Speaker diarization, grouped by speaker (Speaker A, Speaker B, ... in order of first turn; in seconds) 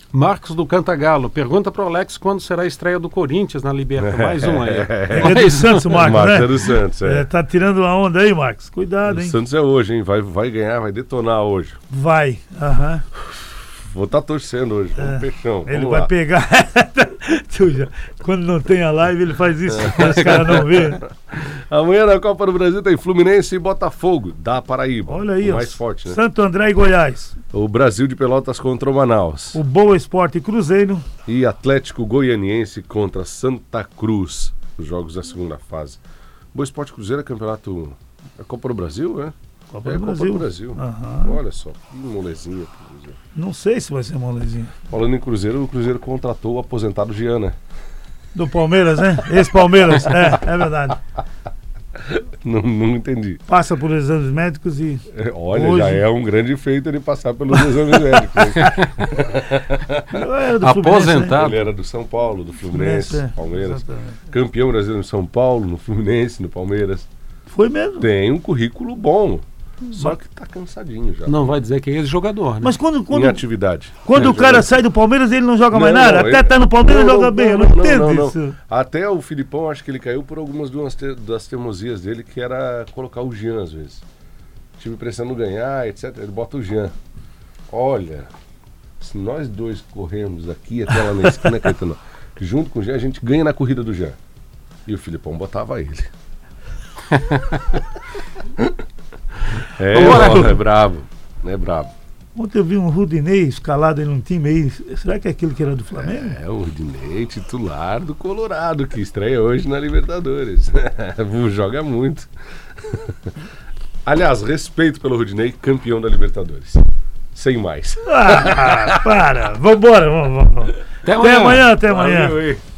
Speaker A: 0.1-6.2, 20.0-20.5, 58.6-58.9, 60.6-61.7, 71.2-72.7, 99.9-100.6, 121.0-121.7
Speaker B: 4.0-7.3, 9.0-11.8, 13.2-16.1, 19.7-26.2, 27.5-29.6, 31.2-36.0, 36.5-39.3, 39.9-43.2, 44.9-47.6, 49.9-50.4, 52.0-53.4, 55.1-60.2, 61.3-67.1, 68.0-71.4, 73.1-74.7, 75.7-84.0, 84.8-86.9, 87.7-88.3, 89.0-94.2, 94.9-96.1, 99.6-101.9, 106.0-112.3, 112.8-113.3, 114.0-119.1, 121.8-122.6
Speaker C: 5.1-9.4, 11.9-13.0, 15.0-21.0, 25.1-27.4, 29.5-31.0, 39.7-41.4, 43.4-44.8, 48.3-51.0, 53.5-56.0, 60.1-61.4, 62.7-64.2, 67.5-68.1, 69.9-70.2, 72.6-73.4, 74.0-78.6, 102.4-106.4, 118.1-122.4